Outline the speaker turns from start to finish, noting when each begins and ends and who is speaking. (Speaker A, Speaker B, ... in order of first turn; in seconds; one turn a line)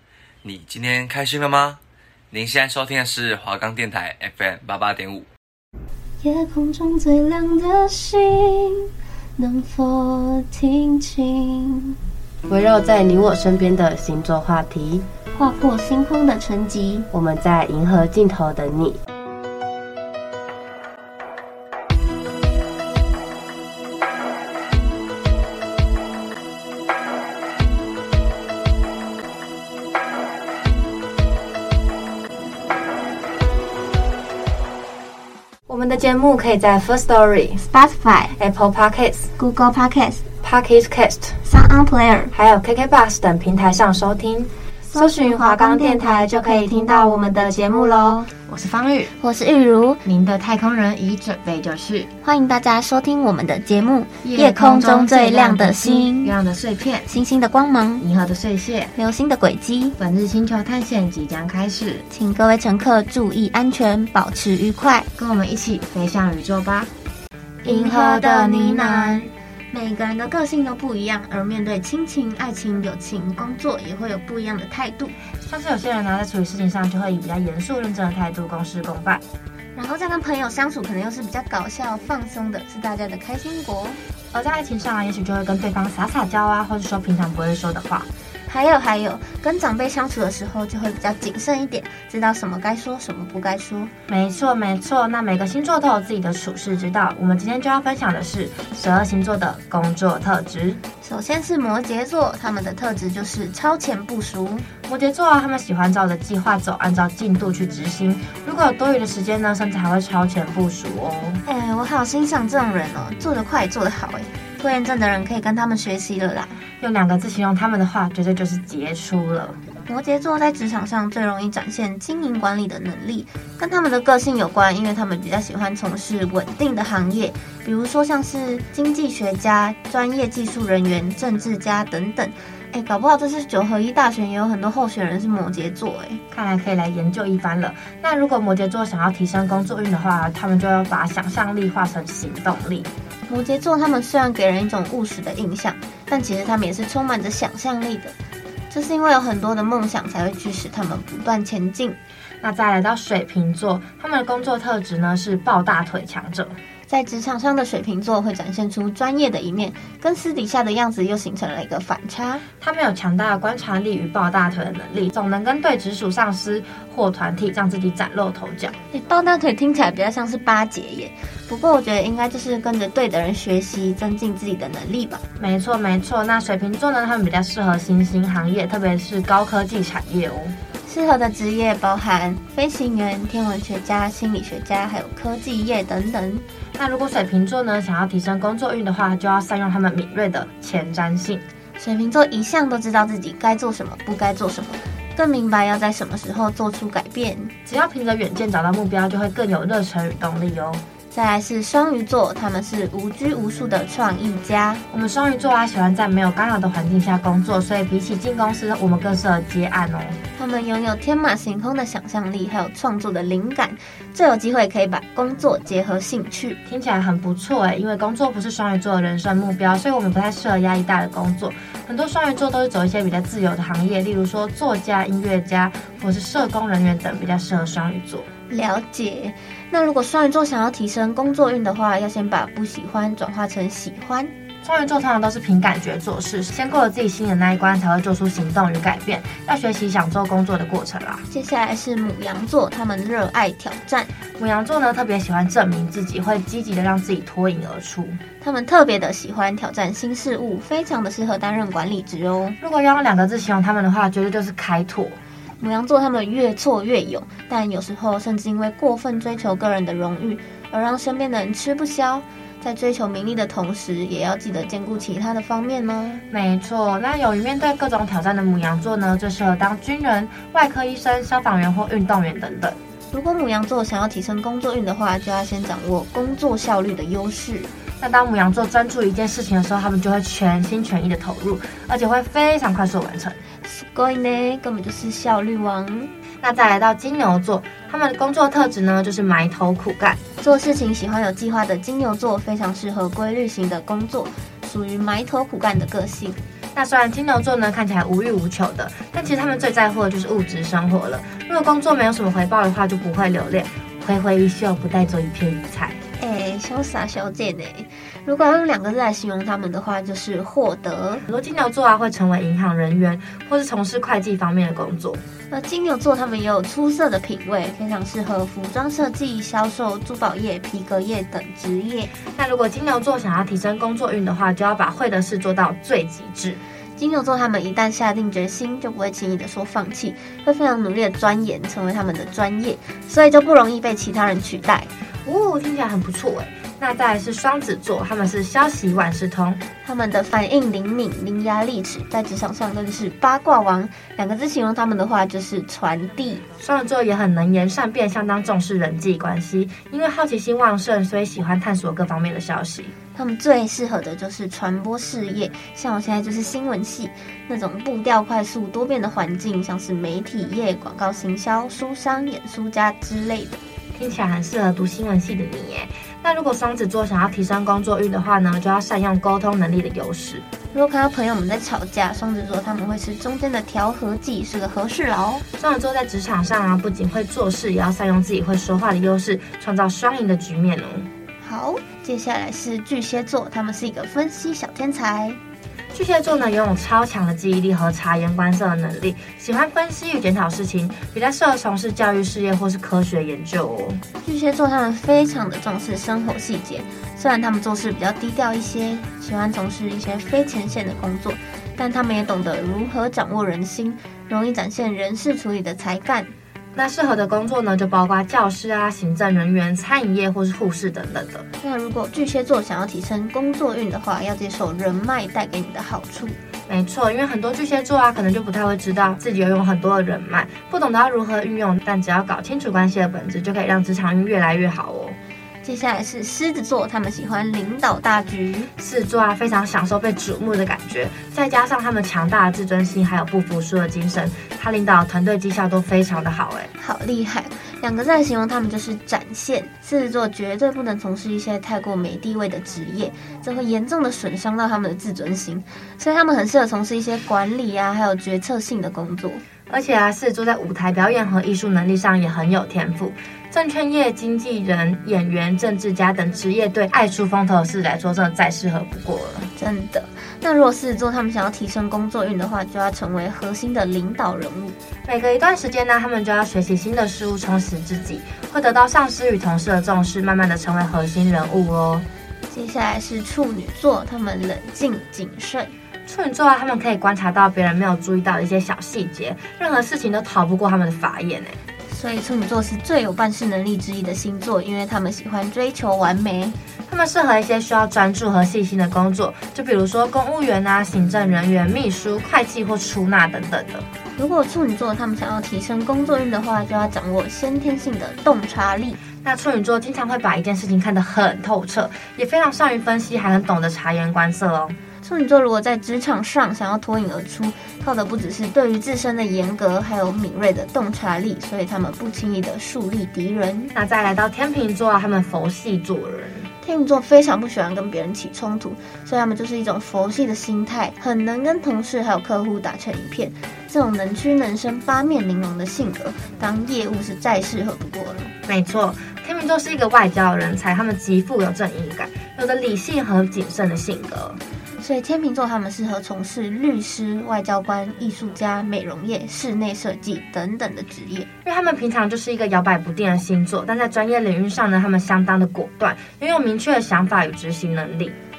Speaker A: 0.4-1.8
Speaker A: 2.3-5.3
Speaker B: 6.2-8.9
Speaker B: 9.4-11.9
Speaker C: 12.5-15.1
Speaker B: 15.3-17.1
Speaker C: 17.1-19.0
Speaker C: 35.7-37.6
Speaker B: 37.6-38.4
Speaker C: 38.4-39.3
Speaker B: 39.4-40.3
Speaker C: 40.4-41.4
Speaker B: 41.5-42.3
Speaker C: 42.3-49.1
Speaker B: 44.9-48.3
Speaker B: 49.2-50.0
Speaker C: 50.0-52.1
Speaker B: 52.2-56.4
Speaker C: 54.2-57.1
Speaker B: 57.1-58.0
Speaker C: 58.0-58.9
Speaker B: 59.0-60.0
Speaker C: 60.0-62.0
Speaker B: 62.1-65.1
Speaker C: 65.2-66.9
Speaker B: 67.6-75.1
Speaker C: 67.7-69.3
Speaker C: 75.4-79.2
Speaker B: 79.8-84.0
Speaker C: 84.3-88.1
Speaker B: 88.5-93.9
Speaker C: 94.1-100.8
Speaker B: 101.0-104.7
Speaker C: 104.9-111.4
Speaker B: 111.5-116.6
Speaker C: 116.8-119.6
Speaker B: 119.9-136.2
Speaker C: 136.3-142.9
Speaker B: 143.3-148.2
Speaker B: 148.7-152.0
Speaker C: 152.4-156.6
Speaker B: 156.9-162.4
Speaker C: 162.6-168.8
Speaker B: 168.9-175.2
Speaker C: 175.4-180.6
Speaker B: 180.9-186.4
Speaker C: 186.8-191.4
Speaker B: 191.8-197.5
Speaker C: 197.7-200.8
Speaker B: 201.1-204.8
Speaker C: 204.9-210.2
Speaker B: 210.4-216.6
Speaker C: 216.7-228.3
Speaker B: 228.5-234.3
Speaker C: 234.6-241.2
Speaker B: 241.3-244.1
Speaker C: 244.4-248.2
Speaker B: 248.4-252.6
Speaker C: 252.6-255.2
Speaker B: 255.6-266.2
Speaker C: 266.3-272.8
Speaker B: 273.1-277.7
Speaker C: 278.0-283.4
Speaker B: 283.6-286.1
Speaker C: 286.4-290.2
Speaker B: 290.4-296.4
Speaker C: 296.8-306.0
Speaker B: 306.2-311.2
Speaker C: 311.3-315.2
Speaker B: 315.5-322.1
Speaker C: 322.3-326.6
Speaker B: 327.0-334.9
Speaker C: 335.3-339.6
Speaker B: 339.8-346.4
Speaker C: 346.6-352.9
Speaker B: 353.1-363.6
Speaker C: 363.9-370.4
Speaker B: 370.7-375.4
Speaker C: 375.6-381.1
Speaker B: 381.4-385.4
Speaker C: 385.9-394.0
Speaker B: 394.2-406.3
Speaker C: 406.8-411.4
Speaker B: 411.6-416.4
Speaker C: 416.7-425.2
Speaker B: 425.6-428.7
Speaker C: 428.8-436.7
Speaker B: 436.8-449.4
Speaker C: 449.7-459.5
Speaker B: 459.6-464.8
Speaker C: 465.1-472.1
Speaker B: 472.5-475.7
Speaker C: 476.1-481.6
Speaker B: 481.9-486.6
Speaker C: 486.9-493.9
Speaker B: 494.2-499.0
Speaker C: 499.2-504.8
Speaker B: 505.0-513.7
Speaker C: 513.7-516.5
Speaker B: 516.6-528.3
Speaker C: 528.5-534.4
Speaker B: 534.8-541.3
Speaker C: 541.5-548.2